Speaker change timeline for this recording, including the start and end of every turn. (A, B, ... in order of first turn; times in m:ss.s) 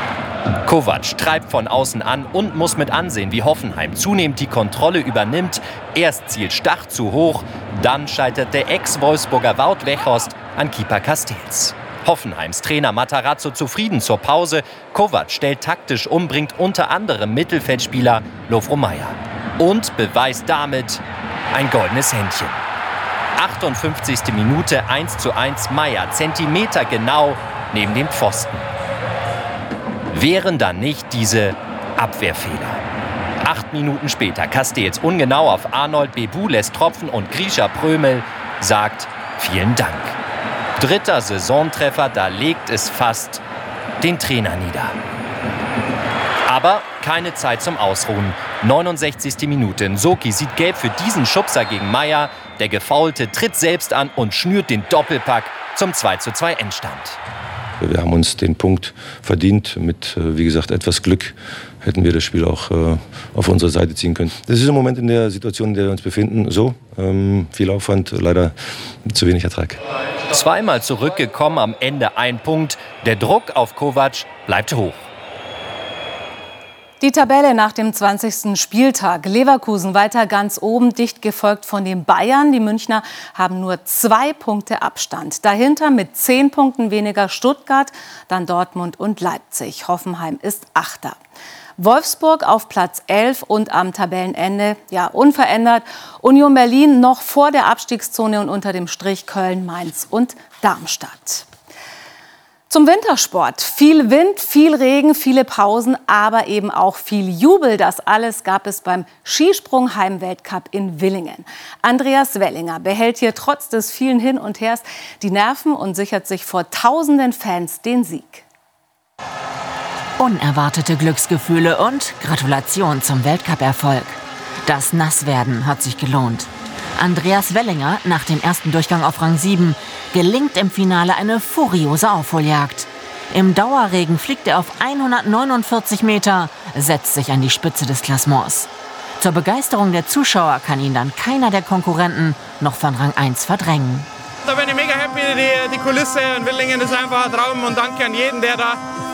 0:00.6-0:21.0 A
0:21.5-0:22.6 A
0:23.4-0:28.7 A
0:30.1-0:32.8 A
0:33.4-0:40.2 A
0:40.8-0:43.4 A
0:44.0-0:44.9 A
0:46.5-0:57.2 A
0:57.8-1:09.8 B
1:10.3-1:15.1 A
1:17.0-1:31.2 C
1:31.8-1:41.5 C
1:42.7-1:58.4 C
2:00.2-2:18.7 D
2:19.2-2:24.1 D
2:24.5-2:28.7 E